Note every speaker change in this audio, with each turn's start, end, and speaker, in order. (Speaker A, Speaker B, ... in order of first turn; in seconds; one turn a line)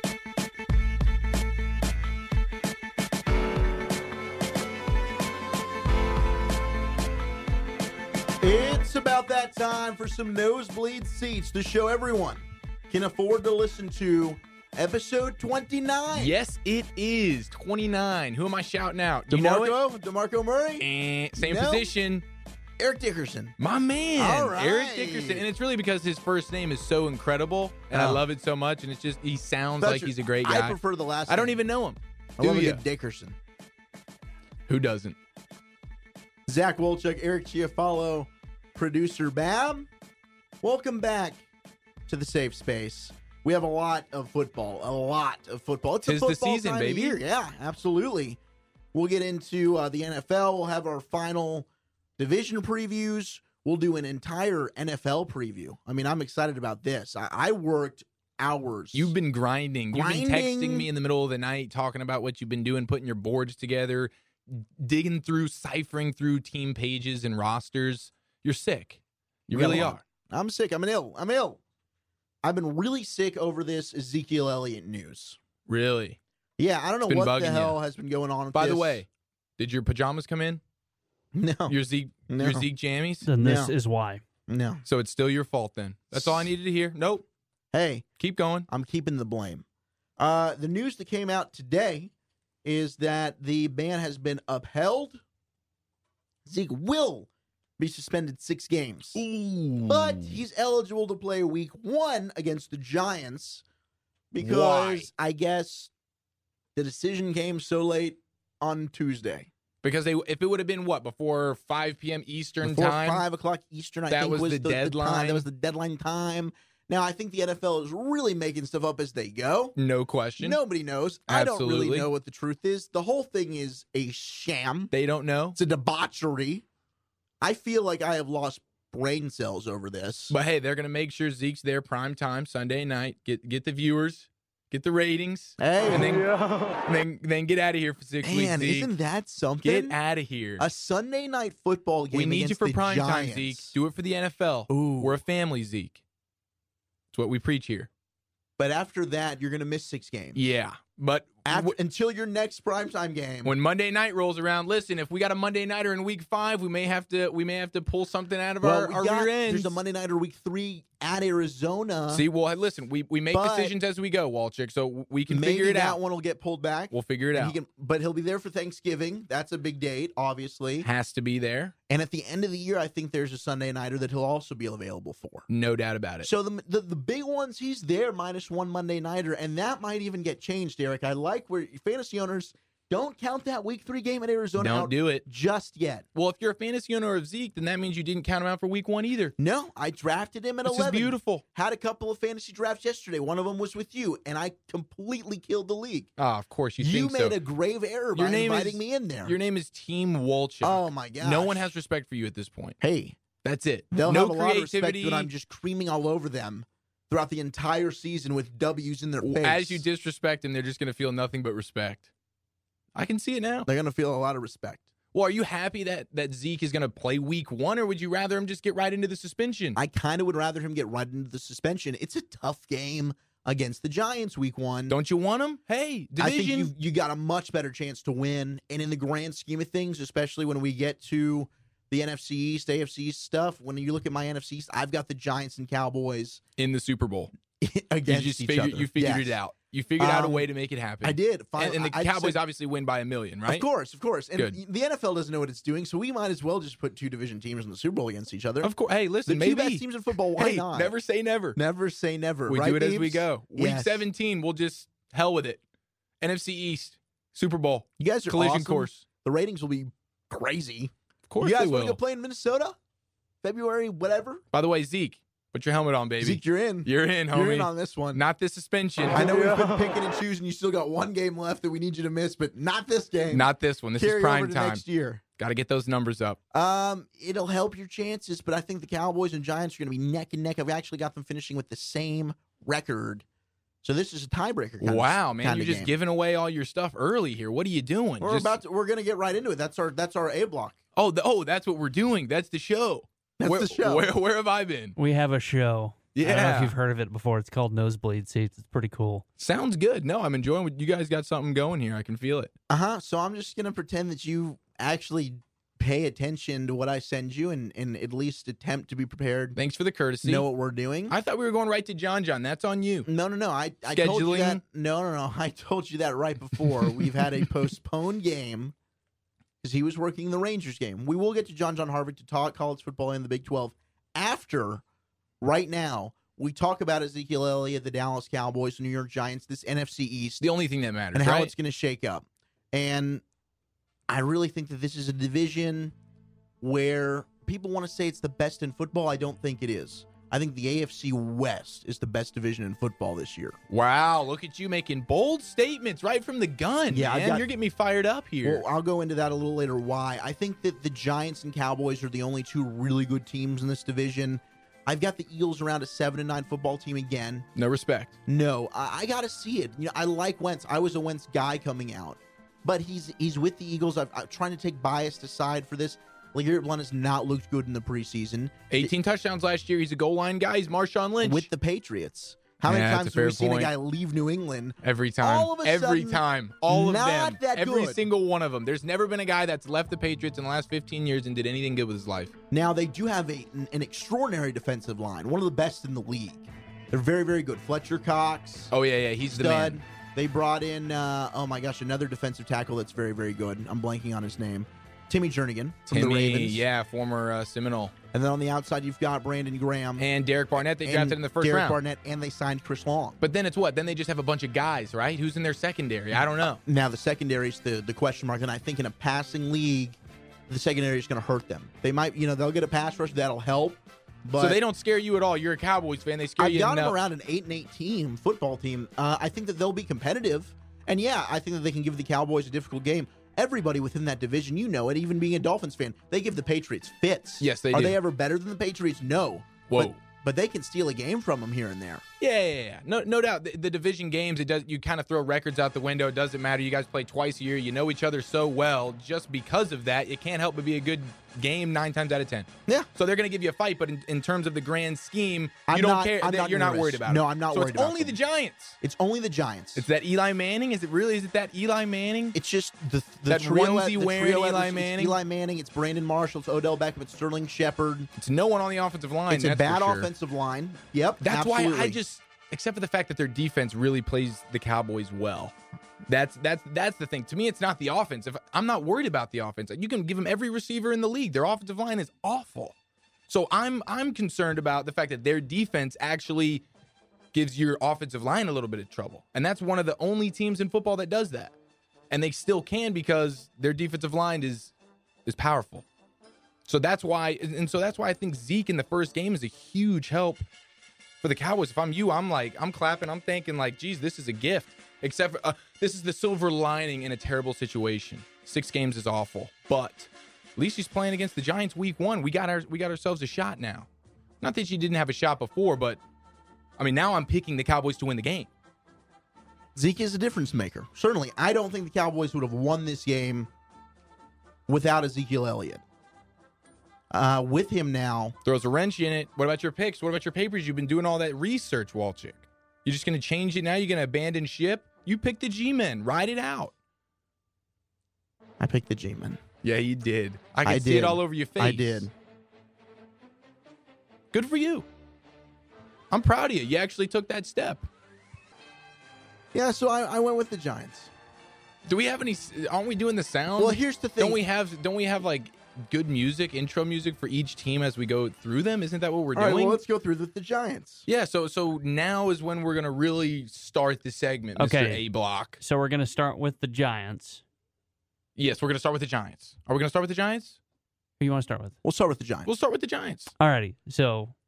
Speaker A: 8.4-16.3
Speaker B: 16.1-19.8
Speaker A: 19.3-21.9
Speaker B: 20.8-22.2
Speaker A: 22.8-23.5
Speaker B: 23.6-32.8
Speaker A: 24.2-25.4
Speaker A: 27.9-28.2
Speaker A: 29.8-31.6
Speaker A: 32.4-33.4
Speaker B: 34.7-35.1
Speaker A: 36.5-39.9
Speaker A: 40.6-41.4
Speaker A: 42.1-48.4
Speaker B: 46.0-47.2
Speaker A: 48.9-51.7
Speaker A: 52.2-59.1
Speaker B: 58.9-70.0
Speaker A: 59.9-60.9
Speaker A: 69.5-71.6
Speaker A: 72.4-75.4
Speaker B: 75.7-76.2
Speaker A: 76.6-79.0
Speaker B: 77.1-77.8
Speaker B: 78.5-79.1
Speaker B: 79.6-80.6
Speaker A: 81.3-81.7
Speaker B: 81.7-83.3
Speaker A: 82.3-82.7
Speaker C: 83.2-84.2
Speaker A: 83.4-83.7
Speaker A: 84.5-84.8
Speaker B: 84.8-87.2
Speaker A: 86.1-86.5
Speaker A: 87.7-88.0
Speaker B: 88.2-88.7
Speaker A: 88.7-89.6
Speaker A: 90.2-92.1
Speaker A: 92.6-95.2
Speaker A: 96.5-99.2
Speaker B: 99.1-100.4
Speaker A: 99.8-103.6
Speaker A: 104.3-105.9
Speaker B: 104.4-105.1
Speaker A: 106.8-109.5
Speaker B: 109.8-113.2
Speaker A: 112.6-119.8
Speaker B: 114.1-115.5
Speaker B: 119.8-120.6
Speaker A: 120.4-124.9
Speaker B: 121.3-122.1
Speaker B: 124.9-125.5
Speaker A: 125.5-126.6
Speaker A: 127.4-130.3
Speaker B: 130.3-136.3
Speaker A: 135.6-136.2
Speaker B: 136.8-138.9
Speaker A: 138.2-139.9
Speaker B: 139.6-140.7
Speaker A: 140.6-143.7
Speaker B: 142.1-146.0
Speaker A: 144.7-145.2
Speaker B: 147.1-147.9
Speaker A: 148.6-150.4
Speaker B: 150.3-151.8
Speaker A: 151.4-153.5
Speaker B: 153.4-159.8
Speaker A: 158.6-162.2
Speaker B: 162.1-166.0
Speaker A: 163.3-163.7
Speaker A: 165.3-170.9
Speaker B: 166.9-167.6
Speaker B: 170.8-171.7
Speaker A: 171.9-175.5
Speaker B: 175.5-176.3
Speaker A: 176.2-186.1
Speaker B: 184.6-185.2
Speaker B: 186.1-189.3
Speaker A: 189.4-196.1
Speaker B: 190.6-191.4
Speaker B: 196.2-197.4
Speaker A: 196.8-199.3
Speaker B: 198.1-202.8
Speaker A: 200.6-201.7
Speaker A: 202.8-203.2
Speaker B: 203.4-205.3
Speaker A: 203.9-209.8
Speaker B: 209.2-212.1
Speaker B: 212.9-213.7
Speaker A: 213.7-214.8
Speaker B: 215.1-219.8
Speaker A: 219.7-224.9
Speaker B: 224.9-226.7
Speaker A: 226.2-236.4
Speaker B: 236.6-237.3
Speaker A: 237.6-239.4
Speaker B: 238.1-243.7
Speaker A: 240.0-240.4
Speaker A: 241.0-242.4
Speaker A: 243.5-248.7
Speaker B: 248.6-251.6
Speaker A: 249.3-250.9
Speaker A: 251.5-254.0
Speaker B: 252.5-255.6
Speaker B: 256.2-259.0
Speaker A: 258.0-262.7
Speaker B: 261.3-262.0
Speaker A: 263.4-264.4
Speaker B: 264.5-269.8
Speaker A: 266.2-268.2
Speaker A: 269.1-275.2
Speaker B: 273.3-274.8
Speaker B: 275.4-276.4
Speaker A: 276.5-283.2
Speaker A: 283.8-285.9
Speaker B: 284.8-288.6
Speaker A: 288.2-290.8
Speaker B: 290.9-294.9
Speaker A: 293.4-294.1
Speaker C: 295.0-299.2
Speaker B: 296.1-296.7
Speaker B: 299.4-302.5
Speaker A: 302.7-309.6
Speaker B: 309.6-310.4
Speaker A: 310.2-311.1
Speaker B: 311.1-313.1
Speaker A: 313.1-318.7
Speaker B: 313.9-314.6
Speaker B: 316.8-317.2
Speaker A: 319.6-324.8
Speaker A: 325.4-330.4
Speaker B: 330.4-331.5
Speaker A: 331.1-333.2
Speaker A: 334.1-335.9
Speaker A: 336.6-343.6
Speaker B: 343.7-348.6
Speaker A: 346.9-347.5
Speaker A: 348.4-357.4
Speaker B: 357.5-358.1
Speaker A: 358.3-368.9
Speaker B: 368.7-371.5
Speaker A: 371.2-378.0
Speaker B: 372.6-373.7
Speaker B: 374.8-382.3
Speaker A: 382.5-388.7
Speaker B: 388.7-389.8
Speaker A: 389.3-396.6
Speaker B: 395.9-397.9
Speaker A: 398.1-400.1
Speaker B: 400.0-401.8
Speaker A: 400.7-403.2
Speaker B: 403.2-406.6
Speaker A: 406.1-410.0
Speaker A: 410.5-414.6
Speaker B: 414.4-416.9
Speaker A: 416.4-432.0
Speaker B: 427.4-428.0
Speaker B: 429.7-430.0
Speaker B: 432.2-448.8
Speaker A: 445.7-448.2
Speaker A: 448.8-449.9
Speaker B: 449.8-452.3
Speaker A: 452.3-458.1
Speaker B: 453.3-455.1
Speaker B: 458.2-460.1
Speaker A: 459.3-462.0
Speaker B: 461.2-465.5
Speaker B: 466.1-472.7
Speaker B: 473.3-476.6
Speaker B: 477.3-481.5
Speaker B: 482.1-484.7
Speaker B: 485.2-485.8
Speaker B: 486.6-490.4
Speaker B: 491.2-503.9
Speaker B: 504.4-506.0
Speaker B: 506.8-508.5
Speaker A: 509.8-513.5
Speaker A: 514.7-515.8
Speaker A: 517.1-518.3
Speaker B: 518.4-526.7
Speaker A: 528.6-529.4
Speaker B: 529.6-532.1
Speaker A: 530.6-532.1
Speaker B: 534.3-534.8
Speaker B: 536.1-537.9
Speaker A: 539.5-541.1
Speaker B: 541.9-549.8
Speaker A: 543.6-544.4
Speaker A: 549.3-551.1
Speaker B: 551.1-555.6
Speaker C: 554.5-555.0
Speaker C: 555.6-557.4
Speaker B: 558.4-560.6
Speaker C: 561.2-561.8
Speaker A: 561.8-562.5
Speaker B: 562.5-563.3
Speaker C: 563.4-564.3